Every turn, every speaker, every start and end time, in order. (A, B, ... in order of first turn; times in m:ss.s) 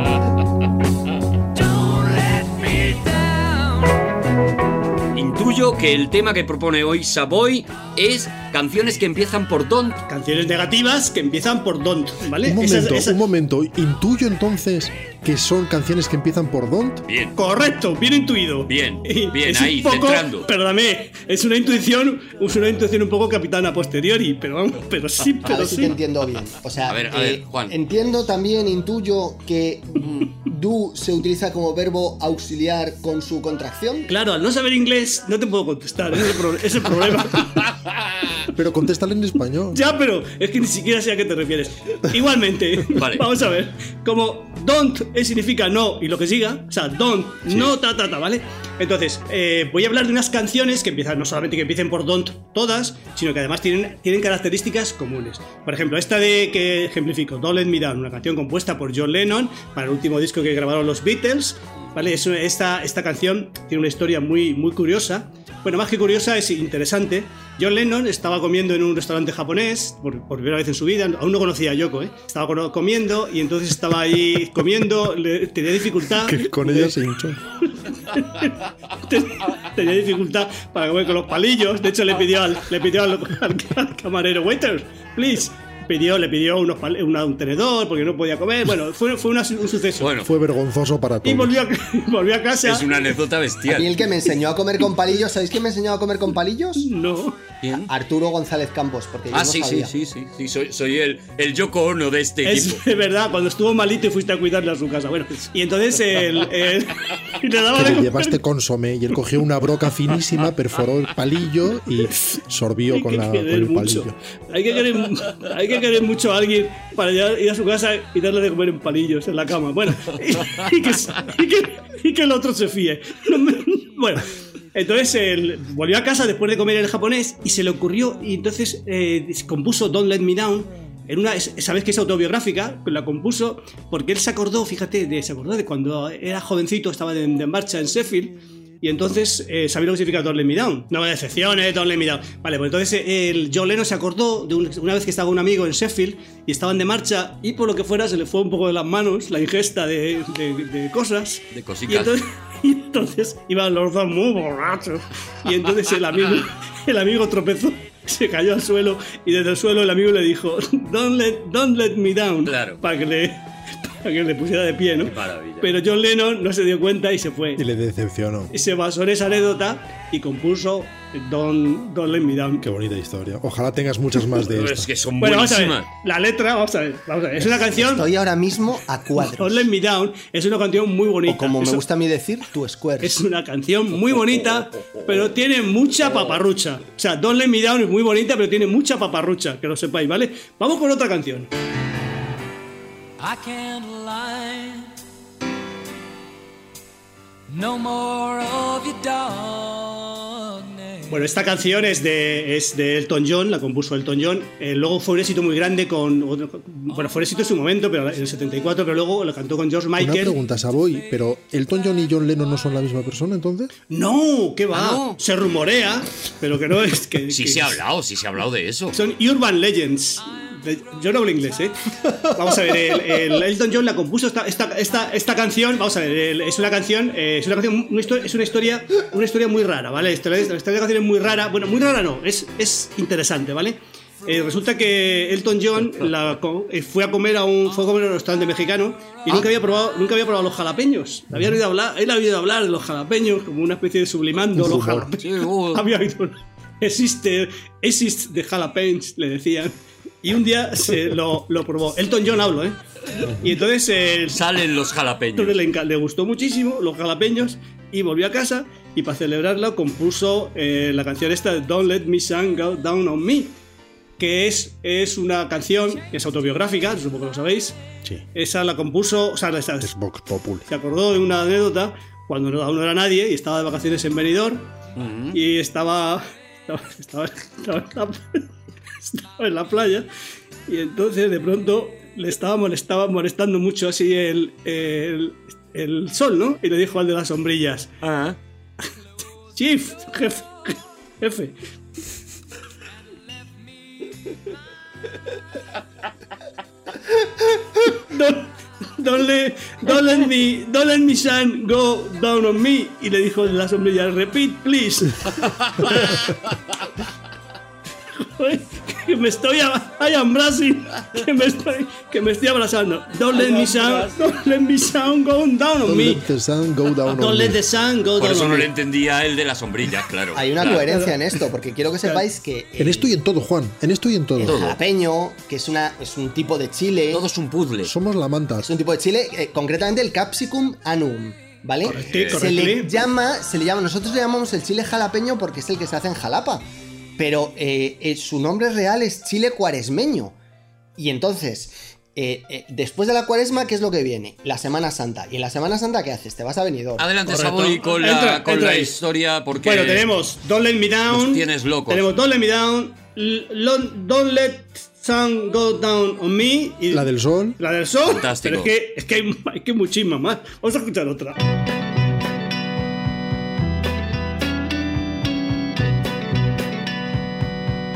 0:01.6-0:03.9 A
0:05.1-0:10.0 B
0:10.1-0:13.2 C
0:12.4-0:17.0 D
0:17.1-0:17.4 B
0:17.4-0:26.0 C
0:18.7-0:20.5 B
0:25.4-0:34.1 E
0:26.8-0:27.8 B
0:30.0-0:30.3 B
0:34.1-0:37.7 C
0:37.4-0:38.4 B
0:38.6-0:39.8 D
0:39.7-1:17.0 C
0:43.0-0:43.3 B
1:16.2-1:17.4 D
1:17.6-1:30.1 C
1:30.0-1:30.3 B
1:30.2-1:31.6 D
1:31.2-1:33.2 C
1:32.6-1:34.0 B
1:33.7-1:36.9 E
1:36.8-1:37.4 C
1:37.6-1:37.9 B
1:37.8-1:39.9 E
1:39.3-1:42.8 B
1:42.4-1:48.4 C
1:47.7-1:54.2 D
1:52.1-1:52.4 C
1:52.9-2:47.6 C
2:31.5-2:32.2 B
2:42.4-2:42.8 B
2:45.0-2:45.7 B
2:47.6-2:48.5 D
2:48.5-2:52.7 C
2:52.6-2:54.9 D
2:54.4-2:55.9 B
2:55.2-2:58.1 C
2:57.5-2:59.7 E
2:59.2-3:01.9 C
3:01.3-3:03.2 E
3:03.0-3:11.5 C
3:13.2-3:14.9 A
3:17.5-3:21.3 A
3:21.1-3:30.4 C
3:30.0-3:33.7 D
3:33.9-3:37.8 C
3:34.7-3:35.2 B
3:37.3-3:39.0 B
3:38.9-4:14.4 C
4:01.3-4:01.6 D
4:04.5-4:05.1 D
4:05.2-4:05.9 B
4:13.2-4:13.6 D
4:14.3-4:15.6 B
4:15.4-4:23.5 C
4:24.2-4:27.8 C
4:28.4-4:29.9 C
4:29.8-4:30.7 D
4:30.7-4:34.7 C
4:35.0-4:35.4 B
4:35.3-4:38.5 C
4:39.0-4:40.1 C
4:40.7-4:47.9 C
4:48.0-4:48.4 B
4:49.5-4:51.6 C
4:57.8-5:06.1 C
5:05.4-5:06.3 B
5:08.1-5:16.2 C
5:13.4-5:14.2 B
5:15.8-5:17.6 D
5:17.1-5:18.7 C
5:18.2-5:20.8 B
5:20.3-5:23.2 E
5:20.9-5:21.2 C
5:22.8-5:24.6 D
5:24.4-5:24.8 B
5:24.4-5:27.2 E
5:27.1-5:27.9 B
5:27.9-5:28.7 D
5:28.6-5:36.6 E
5:31.9-5:32.9 C
5:31.9-5:32.5 B
5:37.2-5:40.4 E
5:41.0-5:47.1 E
5:47.0-5:50.1 B
5:47.3-5:49.0 C
5:49.6-6:01.4 C
5:51.1-5:52.1 B
5:56.9-5:57.6 D
5:58.0-5:58.7 B